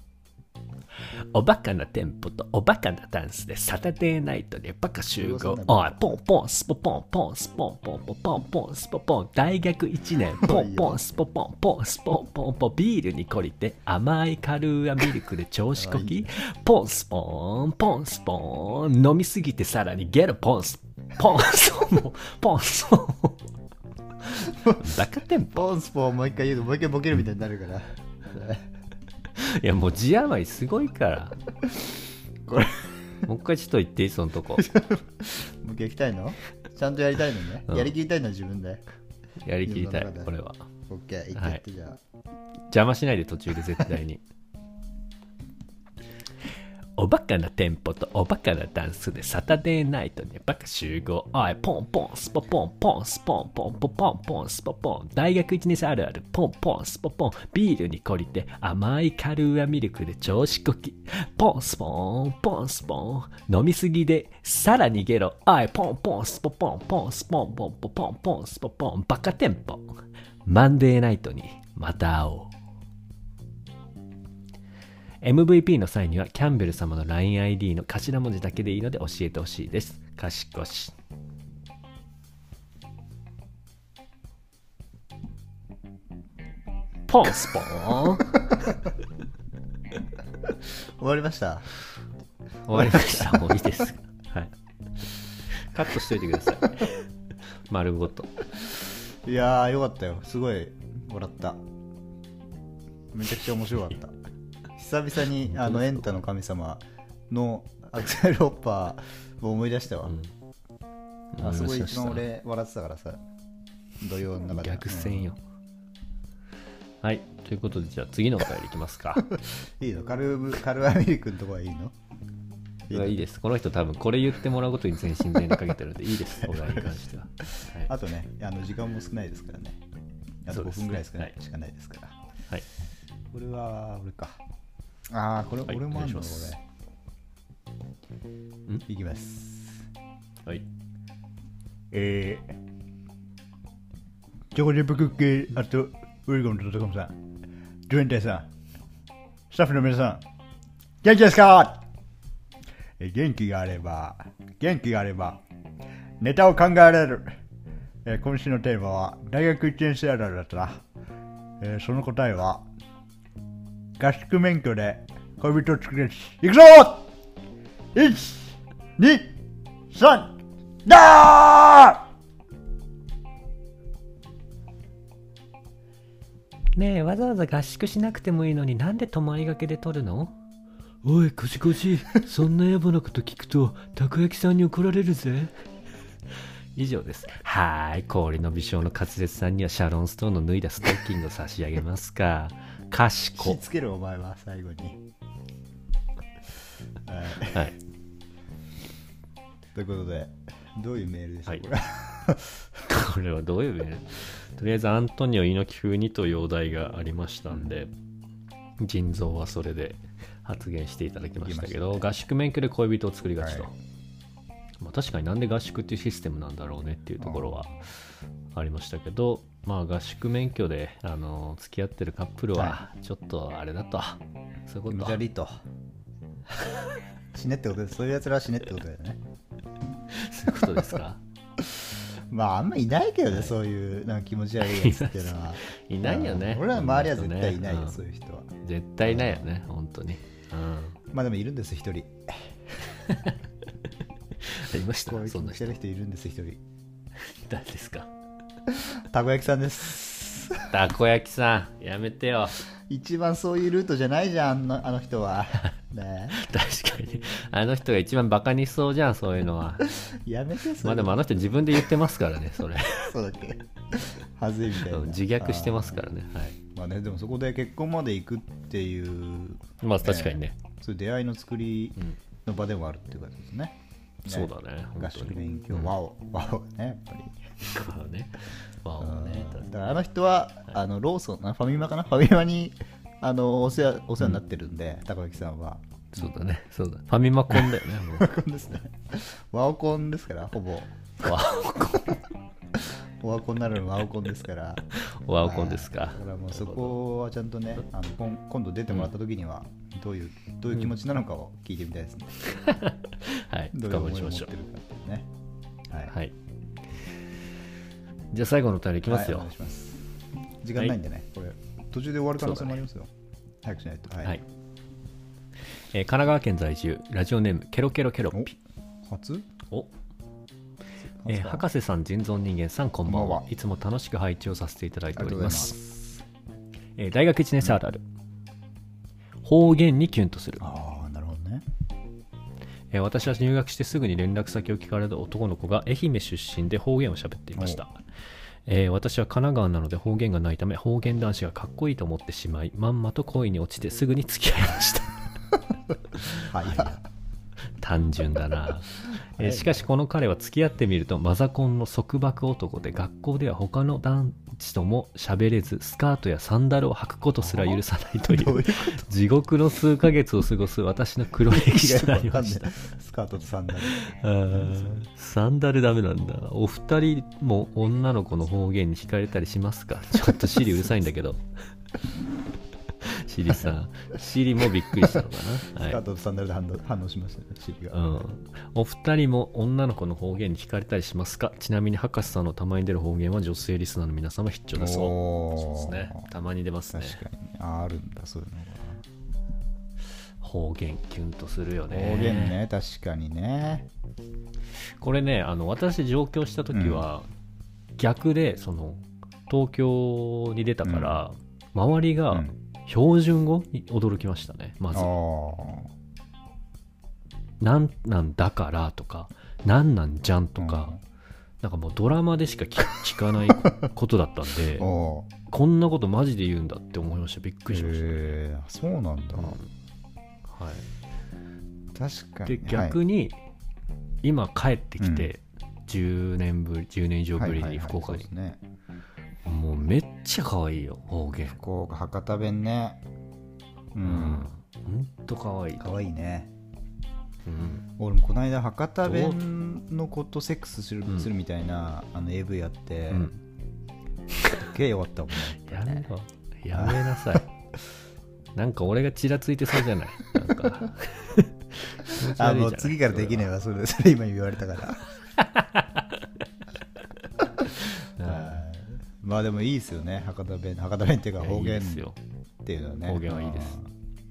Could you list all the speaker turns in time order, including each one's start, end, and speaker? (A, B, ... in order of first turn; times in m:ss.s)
0:01.0-0:23.4 A
0:05.2-0:06.1 B
0:10.4-0:11.0 B
0:15.8-0:16.3 B
0:24.2-0:25.7 A
0:24.5-0:24.9 B
0:25.5-0:28.6 B
0:29.4-0:31.4 A
0:32.5-0:33.2 B
0:33.3-0:34.7 A
0:34.6-0:38.8 B
0:37.7-0:37.9 A
0:39.4-0:40.7 A
0:39.6-0:40.3 B
0:40.9-0:42.0 B
0:41.4-0:41.6 A
0:42.7-0:44.2 A
0:47.0-1:12.5 A
1:15.2-1:21.0 A
1:27.1-1:28.4 A
1:31.0-1:31.7 B
1:32.7-1:34.5 A
1:32.7-1:33.6 B
1:35.5-1:37.0 A
1:37.7-1:38.3 A
1:39.2-1:41.6 B
1:43.1-1:44.2 B
1:44.8-1:50.2 B
1:45.4-1:46.2 A
1:51.3-1:52.2 A
1:51.4-1:53.2 B
1:54.0-1:55.3 B
1:54.4-1:55.4 A
1:57.0-1:59.3 A
1:59.3-2:01.9 B
2:02.9-2:03.2 B
2:02.9-2:07.9 A
2:06.5-2:06.9 B
2:07.5-2:09.8 B
2:10.4-2:12.2 B
2:10.5-2:11.3 A
2:13.3-2:14.4 B
2:15.1-2:16.6 B
2:15.7-2:16.5 A
2:18.9-2:19.8 B
2:21.9-2:22.6 B
2:24.5-2:27.2 B
2:27.9-2:28.5 B
2:29.5-2:30.2 B
2:31.0-2:31.8 B
2:33.0-2:35.4 B
2:36.2-2:37.4 B
2:38.0-2:40.8 B
2:41.6-2:42.7 B
2:44.0-2:47.1 B
2:48.0-2:49.4 B
2:49.9-2:52.0 B
2:56.8-3:00.4 A
3:01.0-3:05.6 A
3:06.8-3:13.6 A
3:13.4-3:15.0 B
3:17.1-3:17.7 B
3:19.8-3:22.8 B
3:22.9-3:27.9 A
3:28.8-3:33.8 A
3:31.4-3:32.1 B
3:33.4-3:33.7 B
3:34.8-3:37.8 A
3:37.2-3:37.8 B
3:38.5-3:45.2 A
3:44.9-3:45.6 B
3:47.3-3:49.2 B
3:50.1-3:51.2 A
3:51.7-3:59.5 B
3:53.3-3:53.6 A
3:54.6-3:58.0 A
3:58.6-4:01.0 A
4:01.1-4:03.0 B
4:03.1-4:03.4 A
4:04.4-4:05.7 A
4:05.0-4:06.6 B
4:07.2-4:08.1 A
4:08.7-4:10.7 B
4:10.7-4:12.6 A
4:12.9-4:16.4 B
4:16.3-4:19.8 A
4:19.9-4:21.2 B
4:20.8-4:23.2 A
4:23.0-4:26.0 B
4:24.8-4:26.6 A
4:26.8-4:37.4 B
4:29.8-4:30.6 A
4:34.3-4:35.9 A
4:37.6-4:39.7 A
4:39.0-4:46.4 B
4:46.1-4:48.3 A
4:47.6-4:51.4 B
4:51.2-4:52.2 A
4:52.8-4:54.8 B
4:54.9-4:57.0 A
4:55.4-5:02.4 B
5:02.4-5:04.5 A
5:03.7-5:05.3 B
5:06.1-5:06.4 A
5:08.3-5:09.5 A
5:09.0-5:10.0 B
5:10.6-5:13.1 B
5:12.4-5:12.8 A
5:13.6-5:14.4 B
5:15.9-5:18.5 A
5:18.3-5:19.5 B
5:21.0-5:21.7 B
5:21.3-5:25.8 A
5:23.1-5:23.5 B
5:25.2-5:26.2 B
5:27.0-5:28.0 A
5:29.4-5:30.6 A
5:30.6-5:31.6 B
5:32.9-5:38.0 A
5:37.6-5:37.8 B
5:38.7-5:45.1 A
5:46.2-5:47.0 A
5:46.3-5:47.0 B
5:47.8-6:02.8 A
5:49.4-5:49.8 B
5:57.4-5:59.1 B
6:01.5-6:05.0 B
6:03.8-6:11.4 A
6:13.0-6:16.0 A
6:15.7-6:18.3 B
6:17.9-6:27.2 A
6:24.8-6:26.3 B
6:26.9-6:29.0 B
6:30.4-6:32.6 A
6:31.9-6:33.9 B
6:35.0-6:37.3 A
6:36.7-6:37.0 B
6:38.0-6:45.1 A
6:40.8-6:41.2 B
6:42.3-6:42.6 B
6:44.9-6:45.9 B
6:47.6-6:50.9 A
6:50.6-6:51.0 B
6:51.6-6:54.9 A
6:54.8-6:55.3 B
6:55.5-6:58.3 A
6:57.7-6:59.6 B
6:59.4-6:59.7 A
7:00.5-7:00.9 A
7:02.0-7:03.0 B
7:02.5-7:03.4 A
7:04.2-7:08.3 A
7:05.0-7:05.3 B
7:07.4-7:08.6 B
7:09.4-7:11.6 A
7:11.5-7:13.0 B
7:13.9-7:14.5 B
7:14.0-7:15.9 A
7:15.8-7:16.5 B
7:17.4-7:17.8 A
7:18.0-7:23.3 B
7:19.0-7:19.4 A
7:23.1-7:23.4 A
7:24.5-7:26.1 B
7:25.6-7:27.5 A
7:26.7-7:27.0 B
7:28.6-7:33.5 A
7:32.0-7:35.1 B
7:35.4-7:36.3 A
7:37.4-7:37.7 B
7:37.8-7:38.6 A
7:38.2-7:42.1 B
7:41.4-7:42.2 A
7:42.6-7:43.9 B
7:43.0-7:43.8 A